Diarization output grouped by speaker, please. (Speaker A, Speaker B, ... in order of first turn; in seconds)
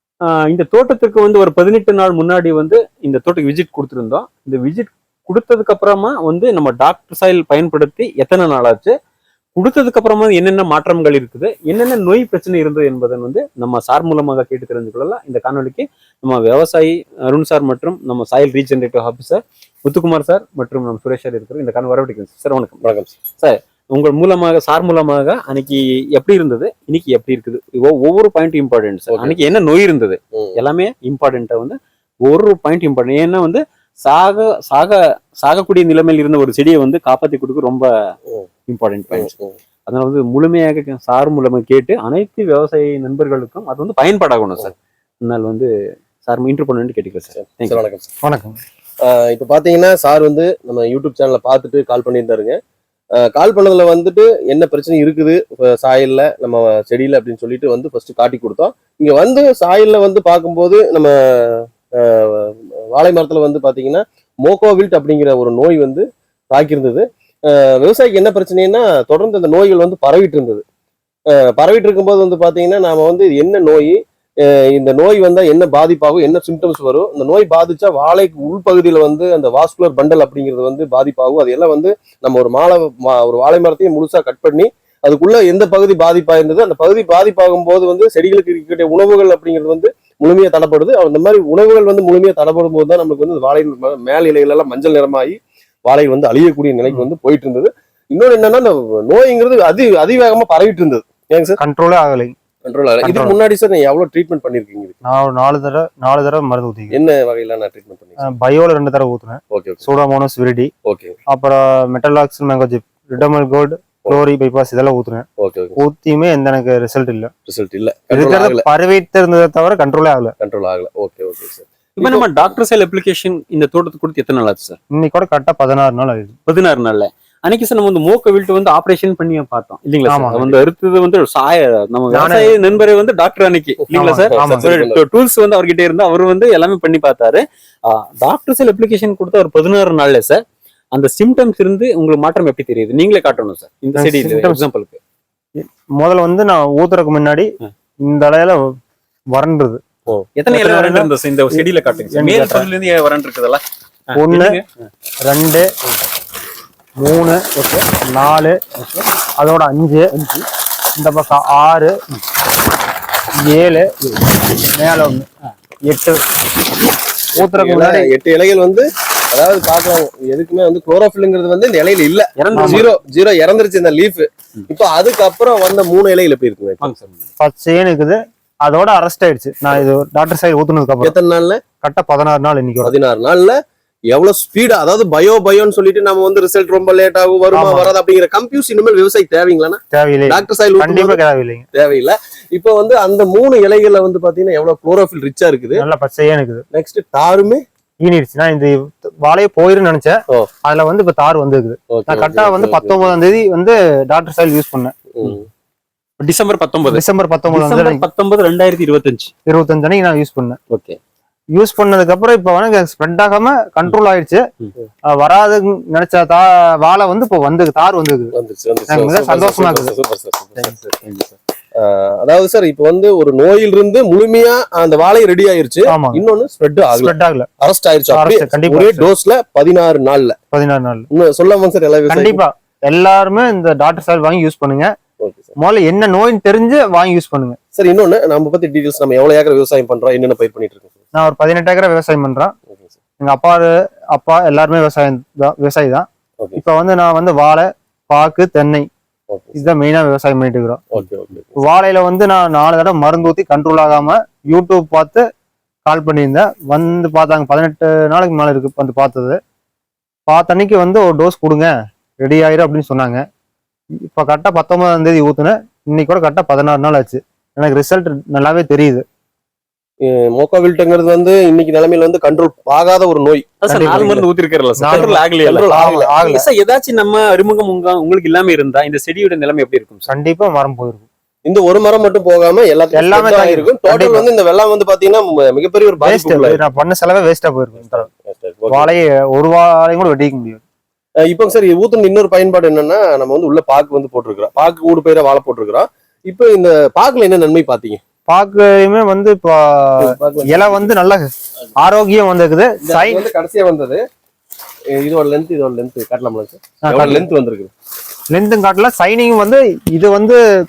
Speaker A: 0.3-8.9, 9.6-22.8, 23.4-37.9, 38.7-39.3, 39.9-45.7, 46.2-47.8, 122.0-124.8, 126.5-140.4, 140.9-145.0, 150.4-154.7, 157.6-157.9, 158.8-159.1, 160.1-160.5, 172.4-172.9, 176.8-177.3, 206.2-209.3, 210.7-211.0, 220.8-221.4, 273.6-280.1
Speaker B: 22.8-23.1, 29.1-29.4, 39.1-39.5, 47.5-48.1, 49.0-52.6, 53.2-70.6, 71.3-101.6, 102.7-105.0, 106.9-108.2, 109.5-109.8, 110.8-111.2, 115.4-115.8, 117.5-118.7, 120.4-122.3, 133.9-135.1, 167.3-176.9, 181.0-181.6, 182.8-183.6, 184.1-191.2, 191.7-195.9, 196.7-197.6, 201.9-203.1, 205.1-205.5, 218.3-220.8, 221.8-230.4, 231.1-232.4, 235.2-235.6, 237.8-240.9, 249.3-249.6, 250.9-251.6, 270.0-274.2, 274.9-276.1, 281.4-286.6, 287.9-288.9, 291.2-298.0, 300.0-300.9, 302.8-304.0, 304.9-307.7
Speaker C: 48.2-48.6, 101.6-102.3, 103.0-103.4, 105.0-107.0, 108.2-110.7, 111.3-115.3, 115.8-117.3, 118.1-120.3, 124.9-126.4, 130.1-130.6, 132.1-132.6, 133.9-134.7, 143.9-144.6, 145.6-147.5, 148.1-148.6, 149.3-149.8, 150.5-152.7, 154.2-154.6, 155.3-155.7, 157.0-157.4, 158.1-158.6, 159.4-160.1, 161.0-161.9, 163.4-165.3, 165.9-166.2, 167.4-168.1, 172.6-172.9, 177.4-181.2, 181.8-182.9, 187.5-187.9, 189.9-191.7, 195.8-196.7, 198.0-204.9, 206.9-208.1, 209.5-210.6, 211.6-214.4, 215.1-218.3, 218.9-219.9, 225.9-226.2, 226.9-227.5, 228.1-229.1, 230.5-231.1, 232.1-234.9, 235.6-237.6, 241.2-242.5, 243.2-248.9, 249.6-251.0, 251.6-255.2, 255.9-259.4, 260.3-263.2, 264.1-269.0, 273.7-274.3, 274.8-276.5, 280.1-281.1, 282.9-284.3, 286.0-288.1, 288.7-290.6, 298.3-301.2, 301.8-303.2, 306.9-307.3, 308.3-310.4